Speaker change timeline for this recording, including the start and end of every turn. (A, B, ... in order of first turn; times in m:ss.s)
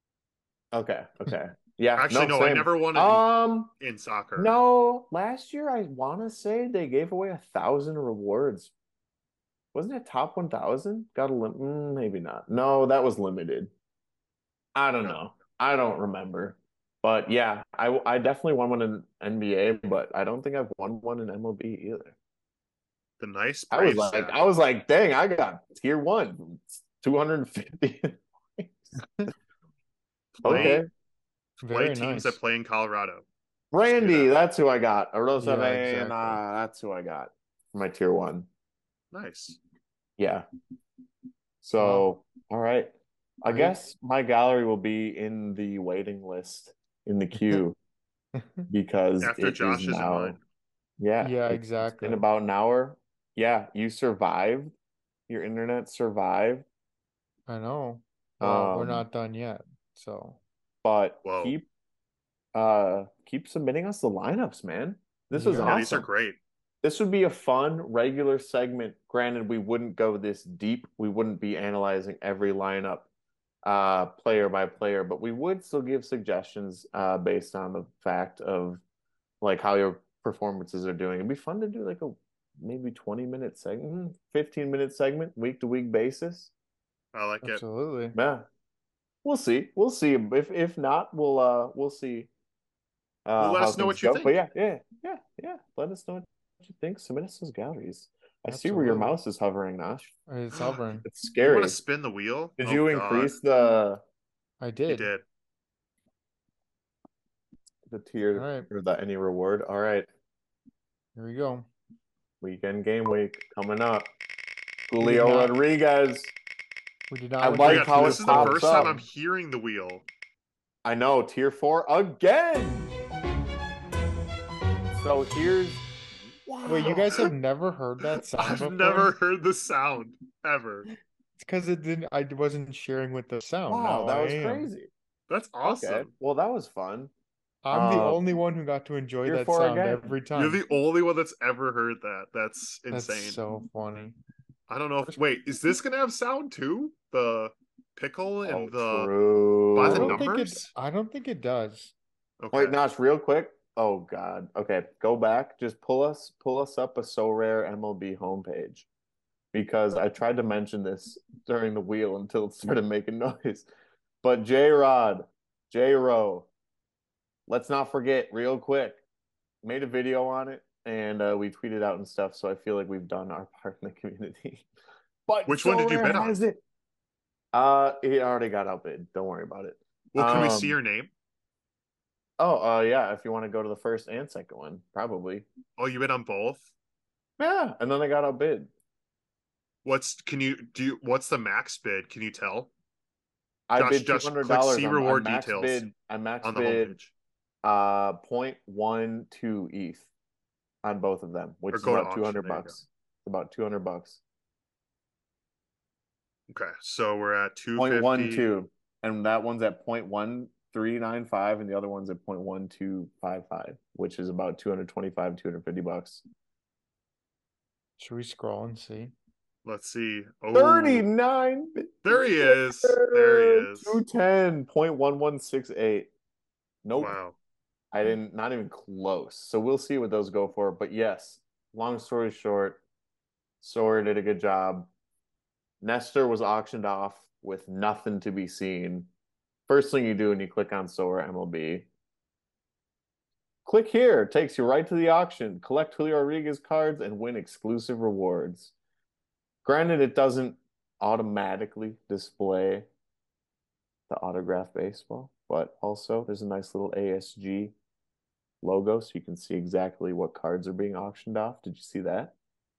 0:00.7-0:03.7 A
0:02.0-0:03.2 B
0:03.8-0:04.5 B
0:04.4-0:08.7 A
0:09.7-0:13.7 A
0:14.8-0:22.2 A
0:23.2-0:24.4 B
0:23.7-0:28.9 A
0:29.0-0:29.3 C
0:30.4-0:30.8 B
0:30.4-0:30.8 C
0:30.4-0:30.9 A
0:31.6-0:32.4 C
0:31.7-0:33.2 B
0:33.7-0:38.5 A
0:34.0-0:34.3 B
0:35.4-0:36.4 C
0:39.1-0:39.6 B
0:40.2-0:40.5 A
0:41.6-0:47.8 A
0:41.8-0:42.1 C
0:43.5-0:43.8 C
0:47.4-0:47.6 C
0:48.4-0:48.7 C
0:48.7-0:50.4 A
0:49.2-0:50.4 B
0:51.0-0:54.7 A
0:51.2-0:52.2 C
0:55.3-0:56.7 A
0:57.5-1:00.4 C
0:58.4-0:59.0 A
1:00.8-1:01.7 A
1:01.2-1:01.6 B
1:02.5-1:06.1 A
1:05.3-1:05.8 C
1:05.6-1:06.4 B
1:06.8-1:13.1 A
1:13.6-1:18.8 A
1:19.4-1:26.5 A
1:27.1-1:27.6 B
1:27.4-1:28.2 C
1:28.2-1:28.5 A
1:29.2-1:32.3 A
1:33.3-1:40.1 A
1:33.4-1:34.4 B
1:38.5-1:39.2 C
1:40.3-1:41.1 C
1:41.0-1:41.8 A
1:41.4-1:43.3 B
1:42.6-1:44.0 A
1:44.6-1:45.1 C
1:44.9-1:45.2 B
1:47.9-1:50.1 A
1:48.3-1:48.7 C
1:51.2-1:51.7 C
1:52.4-1:54.1 A
1:54.9-1:56.3 A
1:55.0-1:55.6 C
1:57.1-1:59.0 C
1:57.4-1:59.0 A
1:57.6-2:00.0 B
2:00.8-2:03.0 A
2:04.9-2:05.9 A
2:06.5-2:07.3 A
2:06.7-2:09.1 C
2:08.4-2:10.9 B
2:11.4-2:14.7 C
2:13.7-2:14.9 A
2:15.3-2:16.1 B
2:15.6-2:17.1 A
2:17.6-2:20.6 C
2:17.7-2:18.2 A
2:19.2-2:20.1 A
2:20.4-2:23.4 B
2:22.9-2:24.2 C
2:24.7-2:29.1 B
2:28.4-2:30.3 A
2:29.8-2:30.7 B
2:29.8-2:31.9 C
2:32.4-2:32.8 B
2:32.5-2:38.9 A
2:39.5-2:43.7 A
2:44.2-2:46.5 A
2:47.5-2:49.0 A
2:49.6-2:54.7 A
2:55.3-2:56.6 A
2:55.5-2:56.4 B
2:57.5-3:00.8 A
3:00.1-3:01.1 B
3:02.4-3:05.5 A
3:05.8-3:06.7 B
3:07.4-3:08.7 A
3:09.8-3:12.7 B
3:13.7-3:17.0 A
3:13.8-3:15.9 B
3:16.4-3:17.1 B
3:17.6-3:20.1 A
3:20.8-3:24.2 A
3:21.7-3:22.8 B
3:26.5-3:28.4 B
3:27.8-3:36.2 A
3:38.0-3:39.1 C
3:39.6-3:41.1 B
3:40.5-3:46.1 A
3:42.0-3:44.0 B
3:46.8-3:47.2 A
3:47.0-3:47.4 B
3:47.9-3:52.8 A
3:53.6-3:54.9 A
3:55.8-3:59.1 A
3:59.7-4:01.9 A
4:03.6-4:08.7 A
4:09.6-4:12.9 A
4:14.1-4:17.8 A
4:18.6-4:22.4 A